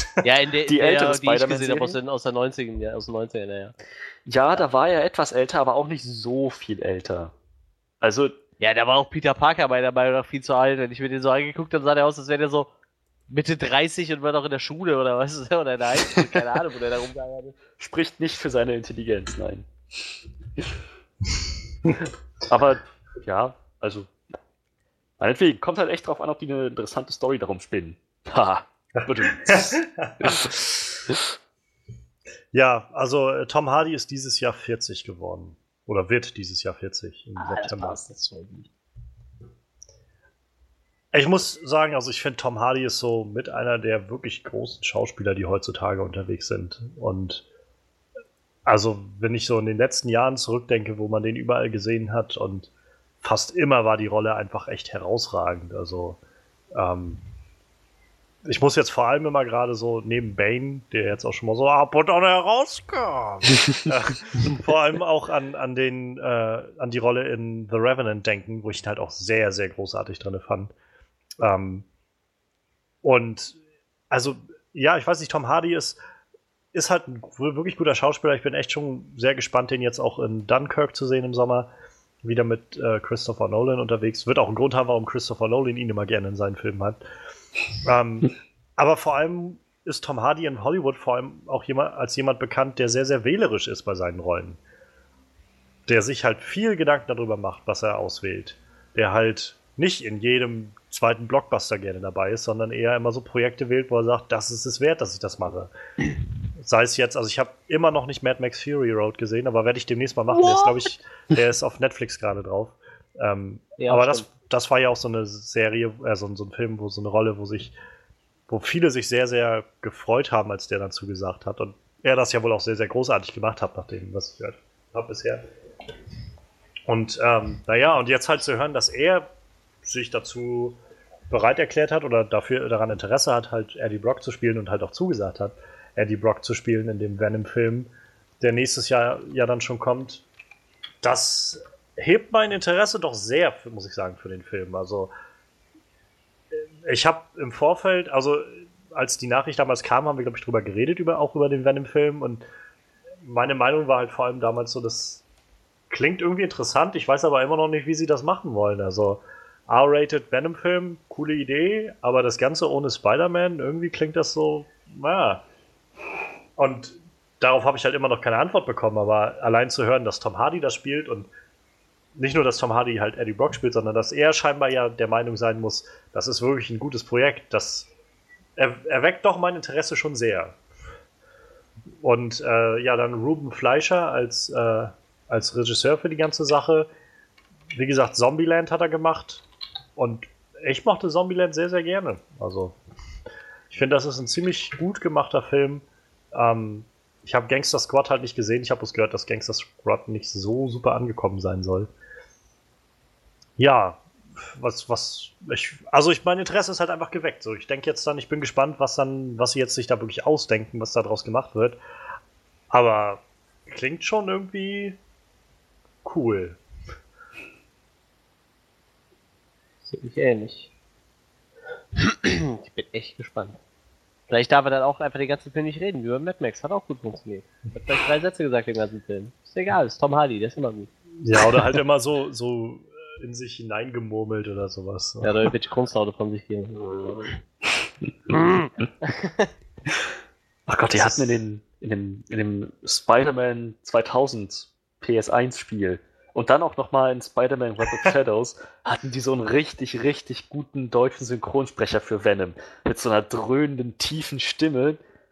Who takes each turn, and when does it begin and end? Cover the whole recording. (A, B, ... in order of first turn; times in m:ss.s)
0:00.2-0:03.7 A
0:00.7-0:02.0 B
0:04.3-0:07.3 B
0:08.0-0:08.4 B
0:08.6-0:12.7 A
0:13.3-0:17.6 A
0:17.8-0:19.7 B
0:22.5-0:24.1 B
0:25.2-0:30.5 B
0:29.0-0:30.6 C
0:32.5-0:38.1 C
0:37.4-0:38.7 A
0:41.1-0:47.4 C
0:48.7-0:52.7 C
0:53.2-0:56.2 C
0:56.7-0:57.2 C
0:58.5-1:10.7 C
1:11.4-1:11.9 C
1:13.0-1:13.6 C
1:14.1-1:16.0 C
1:16.7-1:21.7 C
1:22.2-1:27.0 C
1:27.8-1:34.6 C
1:35.9-1:45.7 C
1:46.6-1:57.7 C
1:50.4-1:50.7 A
1:53.8-1:54.3 A
1:58.5-2:05.4 C
2:06.9-2:09.3 C
2:09.8-2:10.8 C
2:11.3-2:20.2 C
2:21.0-2:25.1 C
2:26.5-2:32.4 C
2:33.2-2:35.2 C
2:35.9-2:45.4 C
2:46.6-2:51.3 C
2:52.2-2:57.9 C
2:58.6-3:00.6 C
3:02.0-3:06.9 C
3:07.7-3:09.4 C
3:10.0-3:12.8 C
3:13.7-3:21.9 C
3:23.6-3:31.8 C
3:32.7-3:35.0 C
3:36.0-3:36.6 C
3:39.9-3:40.7 A
3:42.0-3:43.6 A
3:44.3-3:50.9 A
3:51.2-3:55.5 C
3:55.2-3:57.4 A
3:58.3-3:59.5 A
4:00.7-4:15.0 B